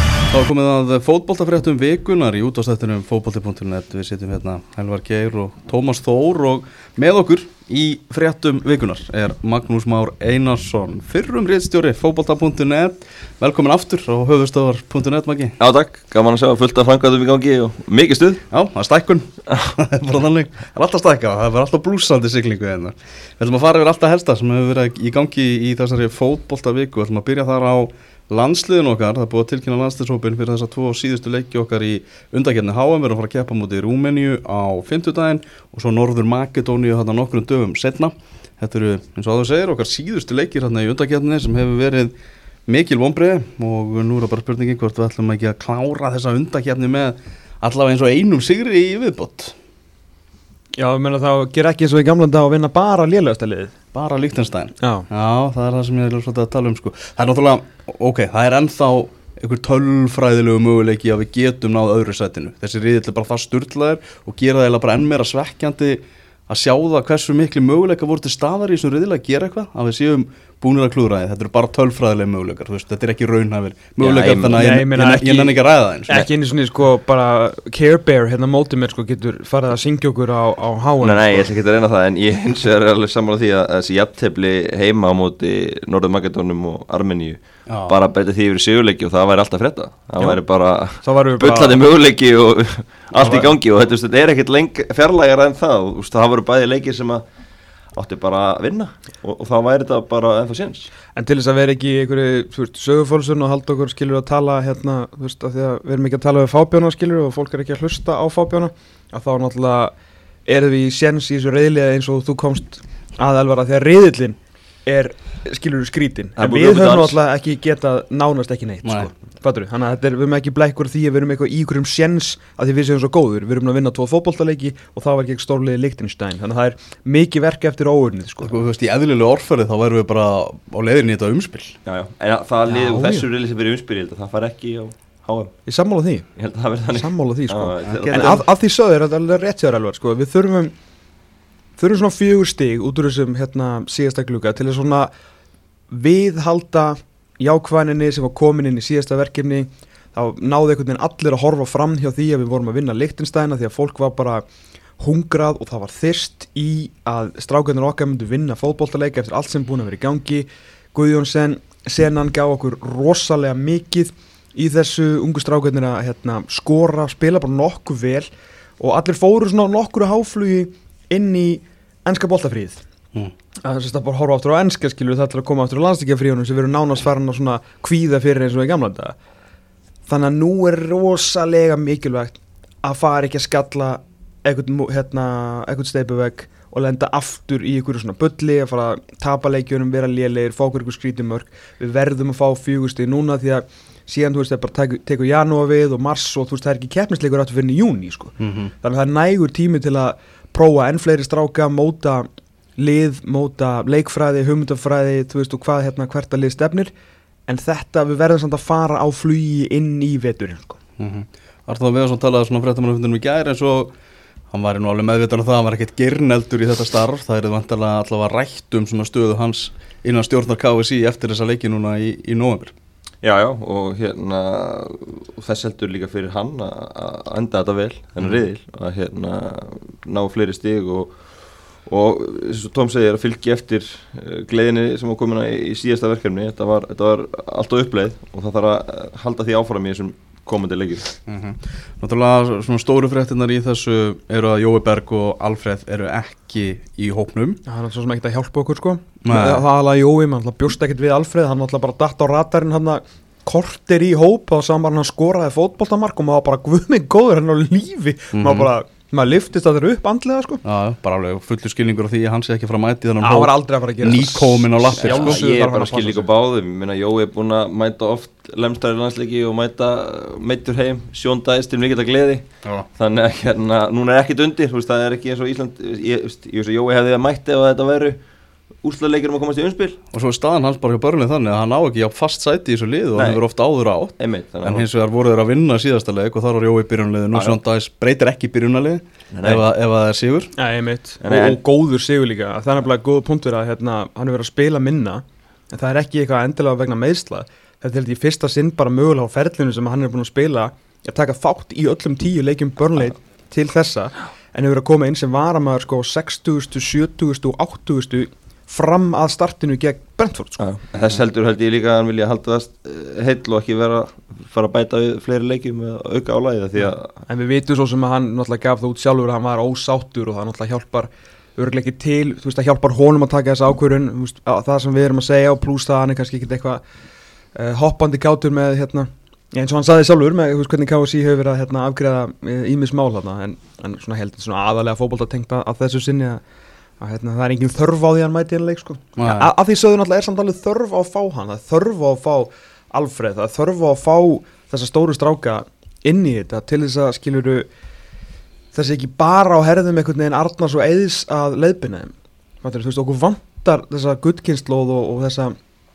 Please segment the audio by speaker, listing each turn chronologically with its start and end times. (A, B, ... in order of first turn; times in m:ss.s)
0:00.3-0:15.6 A
0:15.6-0:18.4 B
0:18.5-0:42.1 A
0:42.7-0:49.5 A
0:50.8-0:53.7 C
0:53.9-1:16.2 A
0:54.8-0:55.1 C
1:14.0-1:14.7 B
1:14.5-1:21.5 C
1:21.0-1:37.2 B
1:27.7-1:28.0 A
1:31.0-1:31.8 C
1:33.2-1:33.5 C
1:37.9-1:40.9 B
1:41.1-1:49.9 C
1:50.4-2:08.5 C
1:56.4-1:57.2 B
1:58.8-1:59.1 A
2:08.4-2:11.8 A
2:11.8-2:15.5 B
2:12.7-2:13.3 C
2:15.6-2:16.3 C
2:16.4-2:18.4 B
2:16.9-2:20.7 C
2:17.8-2:18.3 A
2:21.8-2:25.1 C
2:25.9-2:34.4 C
2:35.0-2:52.8 C
2:53.6-2:59.2 C
3:00.1-3:26.9 C
3:18.4-3:18.7 A
3:27.5-3:30.8 C
3:31.0-3:33.9 A
3:34.5-3:42.7 A
3:43.2-3:51.2 B
3:51.8-4:01.1 B
4:01.3-4:07.6 A
4:07.6-4:20.6 C
4:09.2-4:09.6 A
4:18.3-4:18.7 A
4:20.6-4:25.4 A
4:23.2-4:26.3 C
4:24.9-4:38.2 B
4:38.8-4:40.0 B
4:40.1-4:50.5 A
4:43.1-4:43.4 B
4:44.2-4:44.9 B
4:47.3-4:47.6 B
4:49.3-4:49.6 B
4:50.6-5:10.6 C
4:51.2-4:51.6 B
5:10.6-5:17.1 B
5:17.3-5:26.8 C
5:27.5-5:36.4 C
5:37.0-5:47.7 C
5:39.2-5:39.5 A
5:48.7-5:55.6 C